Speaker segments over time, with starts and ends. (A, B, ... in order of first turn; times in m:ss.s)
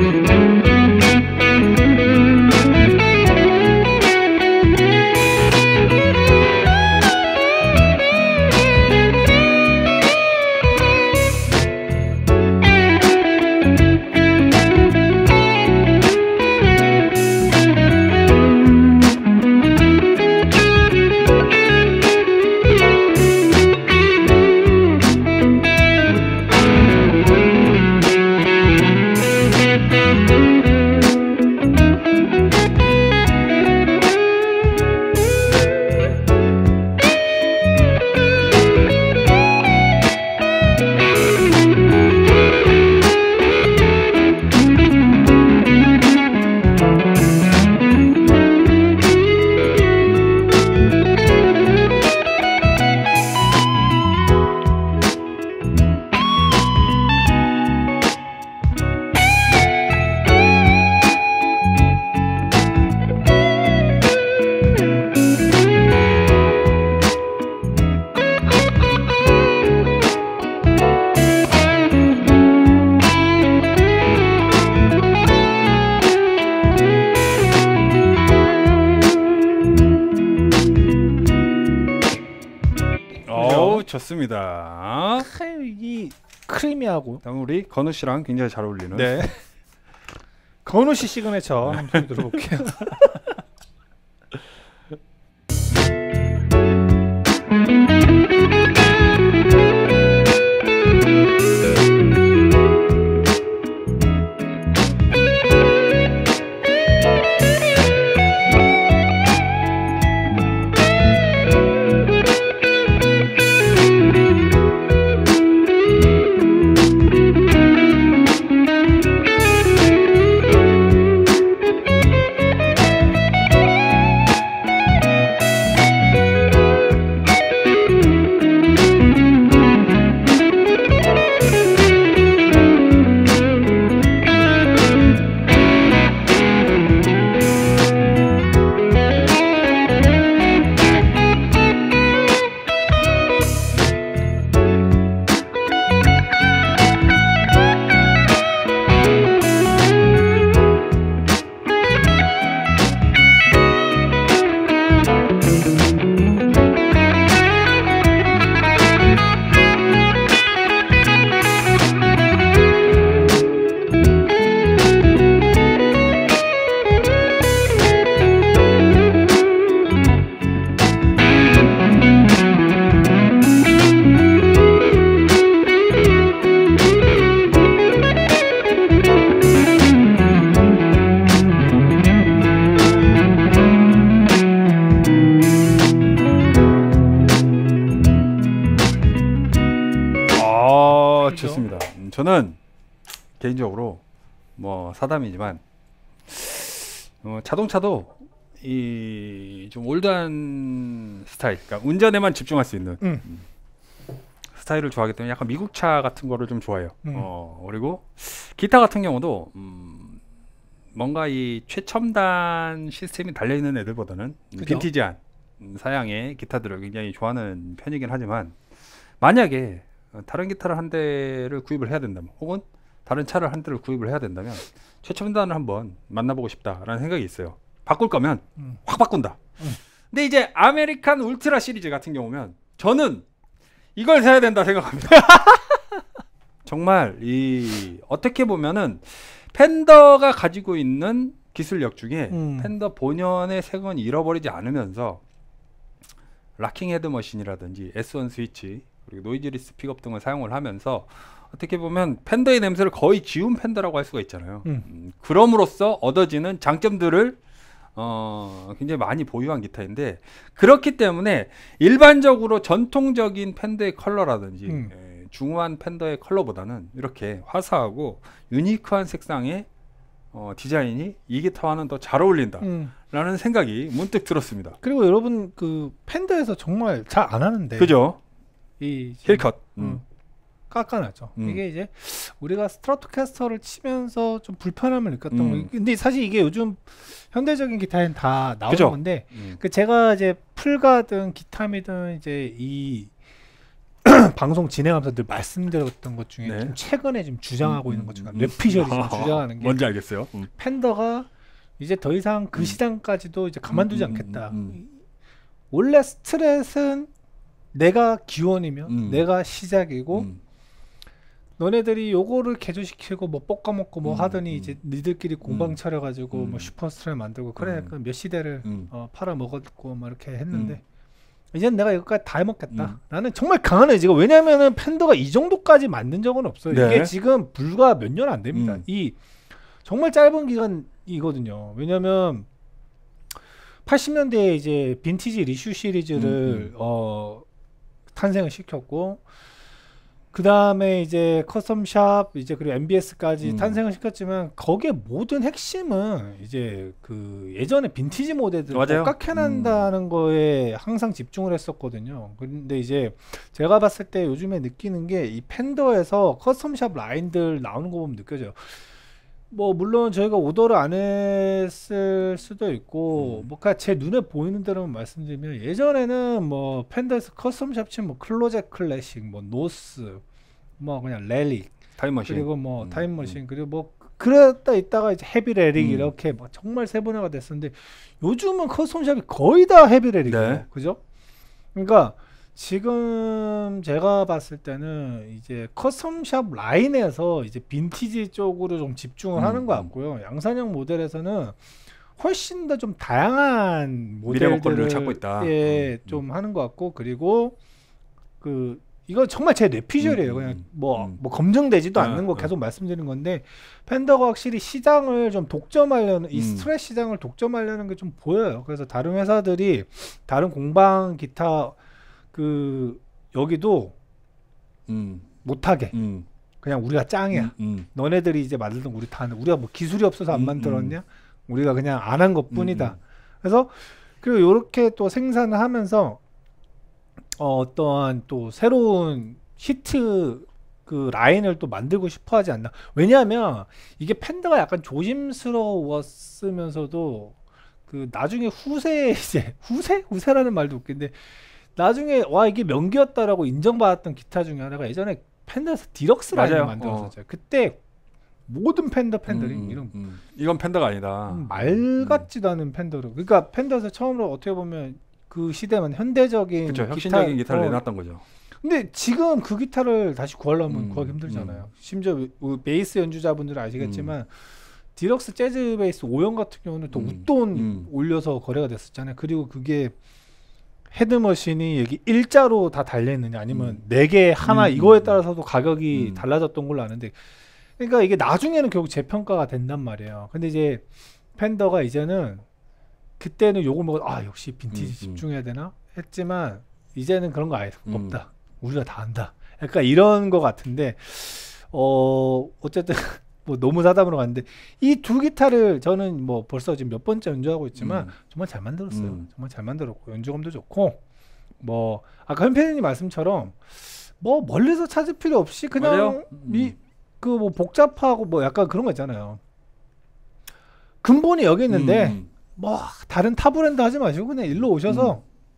1:23.2-1:25.3 A
1:23.3-1:23.8 B
1:25.2-1:27.2 B
1:27.2-1:29.2 A
1:28.9-1:29.4 B
1:30.6-1:33.2 B
1:31.6-1:32.1 A
3:10.3-3:12.6 A
3:13.4-3:14.0 A
3:14.6-3:15.6 A
3:16.3-3:23.4 A
3:24.5-3:30.2 A
3:27.0-3:27.3 B
3:31.0-3:38.6 A
3:34.6-3:34.9 B
3:39.2-3:49.4 A
3:50.1-3:53.2 A
3:54.0-3:55.5 A
3:55.3-3:55.6 B
3:56.6-4:05.2 A
4:02.3-4:02.7 B
4:06.6-4:17.4 A
4:18.0-4:29.7 A
4:24.7-4:24.9 B
4:30.3-4:34.8 A
4:32.6-4:32.9 B
4:34.8-4:38.0 B
4:37.8-4:38.2 A
4:38.8-4:40.0 B
4:39.2-4:40.0 A
4:40.7-4:53.1 B
4:45.3-4:45.7 A
4:48.7-4:49.6 A
4:54.0-4:59.9 B
4:56.4-4:56.8 A
4:57.6-5:00.5 A
5:00.5-5:05.0 B
5:03.7-5:04.8 A
5:05.7-5:07.1 B
5:07.7-5:10.3 B
5:08.9-5:09.3 A
5:10.1-5:10.4 A
5:11.6-5:20.8 B
5:14.0-5:14.8 A
5:15.4-5:15.8 A
5:16.3-5:16.7 A
5:17.6-5:17.9 A
5:18.6-5:18.9 A
5:20.5-5:20.8 A
5:21.5-5:29.2 B
5:26.7-5:27.1 A
5:28.5-5:28.8 A
5:29.8-5:32.5 B
5:33.8-5:37.4 B
5:36.2-5:36.7 A
5:38.1-5:39.2 B
5:40.3-5:58.8 B
5:43.4-5:43.8 A
5:48.7-5:49.9 A
5:59.5-6:10.2 B
6:03.1-6:03.5 A
6:10.8-6:21.0 B
6:12.0-6:13.4 A
6:15.8-6:16.1 A
6:20.2-6:20.6 A
6:21.7-6:31.6 B
6:29.4-6:29.9 A
6:32.2-6:37.6 B
6:34.2-6:36.2 A
6:38.4-6:51.8 B
6:40.0-6:41.2 A
6:41.9-6:42.5 A
6:46.3-6:46.7 A
6:52.3-6:54.0 B
6:54.9-6:55.3 A
6:55.4-6:56.0 B
6:55.9-6:56.2 A
6:56.6-7:06.2 B
6:57.3-6:57.9 A
7:00.3-7:01.0 A
7:02.5-7:03.0 A
7:07.3-7:17.4 B
7:17.9-7:27.8 B
7:26.3-7:27.1 A
7:28.5-7:29.9 B
7:29.3-7:32.3 A
7:31.3-7:37.8 B
7:36.6-7:38.2 A
7:38.6-7:49.9 B
7:40.7-7:41.6 A
7:43.8-7:44.1 A
7:46.9-7:47.9 A
7:50.9-7:57.2 B
7:53.5-7:53.8 A
7:54.4-7:55.2 A
7:55.9-7:56.2 A
7:57.8-8:00.8 B
8:01.4-8:02.4 B
8:03.2-8:21.0 B
8:04.7-8:05.2 A
8:07.9-8:08.2 A
8:17.8-8:18.1 A
8:18.9-8:19.2 A
8:21.6-8:29.4 B
8:25.8-8:26.8 A
8:31.0-8:35.2 B
8:31.7-8:32.3 A
8:34.6-8:35.2 A